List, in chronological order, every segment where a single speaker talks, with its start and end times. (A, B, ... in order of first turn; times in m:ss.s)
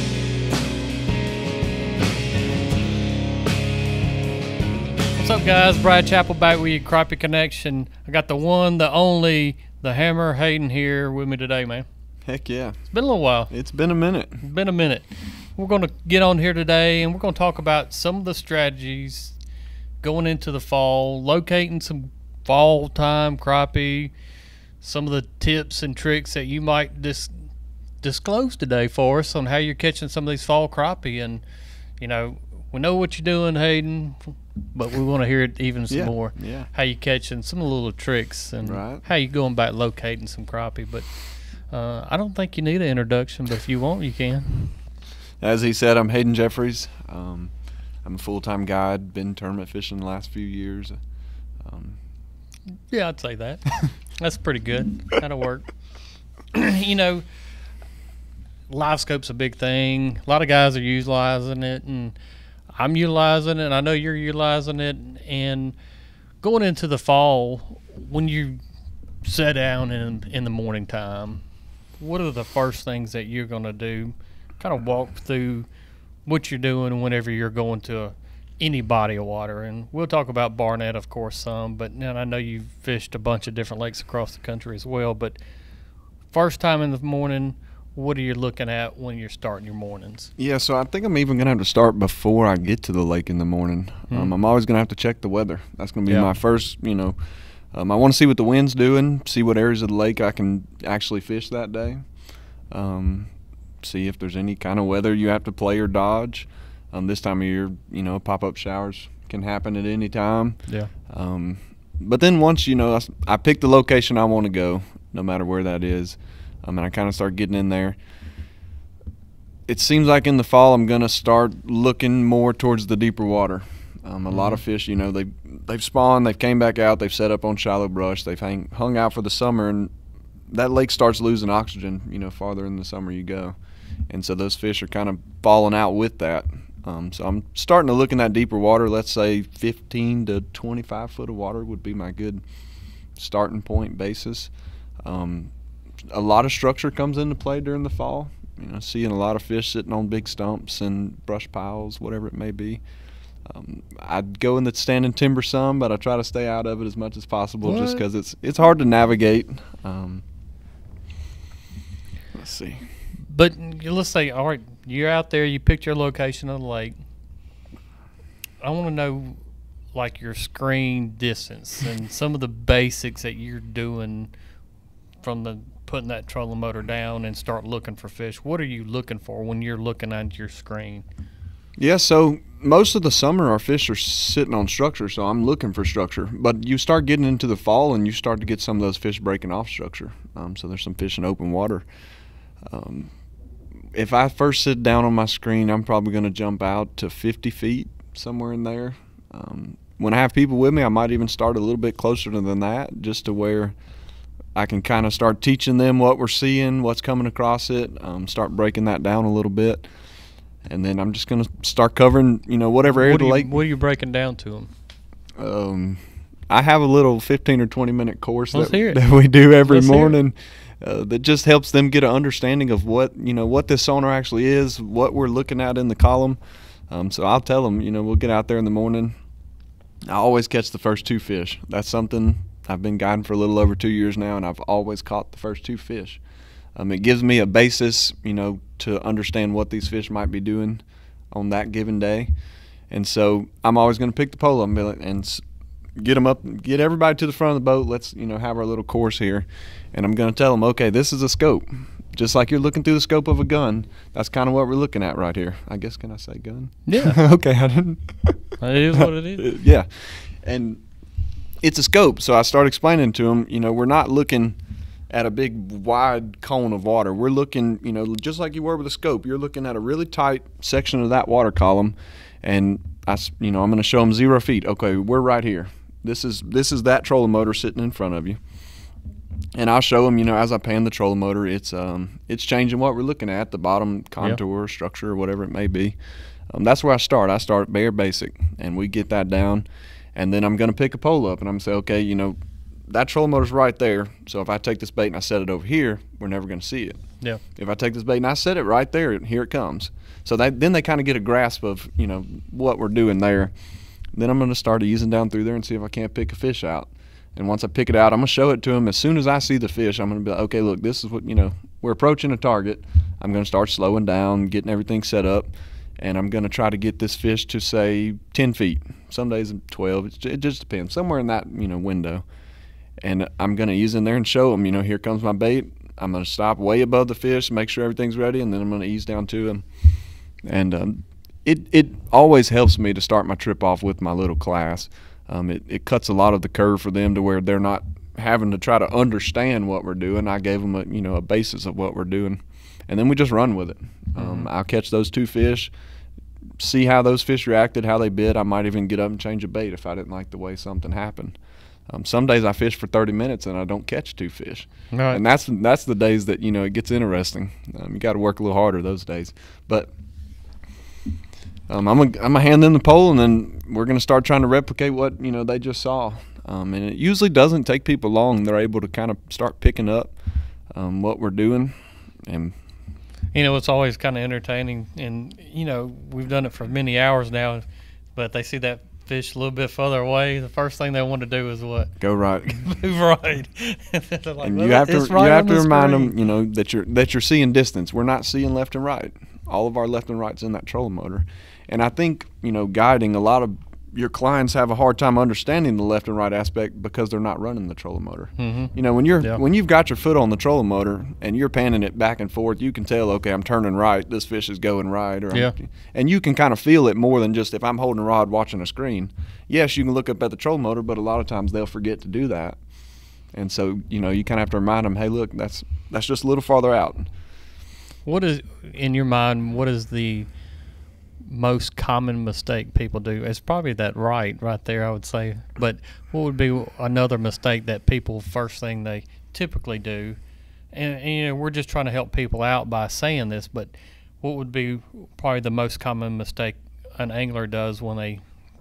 0:05.2-0:11.8 A
0:12.2-0:12.8 B
0:12.9-0:13.5 A
0:13.5-0:14.4 B
0:14.4-0:19.4 A
0:20.0-0:24.1 A
0:24.8-0:27.3 A
0:28.0-0:31.4 A
0:32.0-0:44.7 A
0:35.9-0:36.7 B
0:38.6-0:39.0 B
0:45.4-0:47.5 B
0:48.0-0:51.0 B
0:51.6-0:52.0 B
0:52.9-0:55.7 A
0:56.5-0:57.3 A
0:58.7-1:02.2 A
1:02.7-1:05.8 A
1:06.4-1:08.6 A
1:09.2-1:11.4 A
1:12.0-1:15.7 A
1:16.2-1:25.4 A
1:26.3-1:30.3 A
1:30.4-1:37.2 B
1:37.7-1:42.0 B
1:42.7-1:58.0 B
1:59.7-2:09.9 B
2:04.3-2:04.6 A
2:10.5-2:13.5 B
2:14.1-2:22.4 B
2:23.2-2:24.5 B
2:25.0-2:25.5 B
2:26.1-2:32.8 B
2:33.4-2:40.2 B
2:37.6-2:38.0 A
2:42.3-2:42.8 B
2:43.2-2:47.0 A
2:48.6-2:49.4 A
2:49.9-2:54.3 A
2:55.2-3:01.0 A
3:01.8-3:11.8 B
3:12.7-3:13.1 B
3:13.9-3:23.8 B
3:24.5-3:29.9 B
3:30.7-3:33.6 B
3:32.8-3:34.7 A
3:35.4-3:49.2 B
3:38.5-3:39.0 A
3:39.6-3:40.2 A
3:50.1-3:56.2 B
3:56.8-4:02.3 B
4:02.9-4:05.4 B
4:06.0-4:20.8 B
4:16.9-4:17.2 A
4:18.6-4:19.5 A
4:21.6-4:24.6 B
4:25.1-4:38.4 B
4:39.6-4:46.0 B
4:46.5-4:57.0 B
4:57.6-5:03.5 B
5:04.1-5:22.2 B
5:23.0-5:29.6 B
5:30.4-5:45.7 B
5:44.2-5:44.5 A
5:46.6-5:51.4 B
5:51.9-5:59.9 B
5:54.9-5:55.2 A
6:01.7-6:10.2 B
6:10.7-6:12.6 B
6:13.3-6:26.1 A
6:22.0-6:22.6 B
6:24.4-6:52.6 B
6:38.4-6:39.4 A
6:53.3-6:57.1 B
6:58.1-7:00.3 A
7:01.2-7:10.2 A
7:10.7-7:18.2 A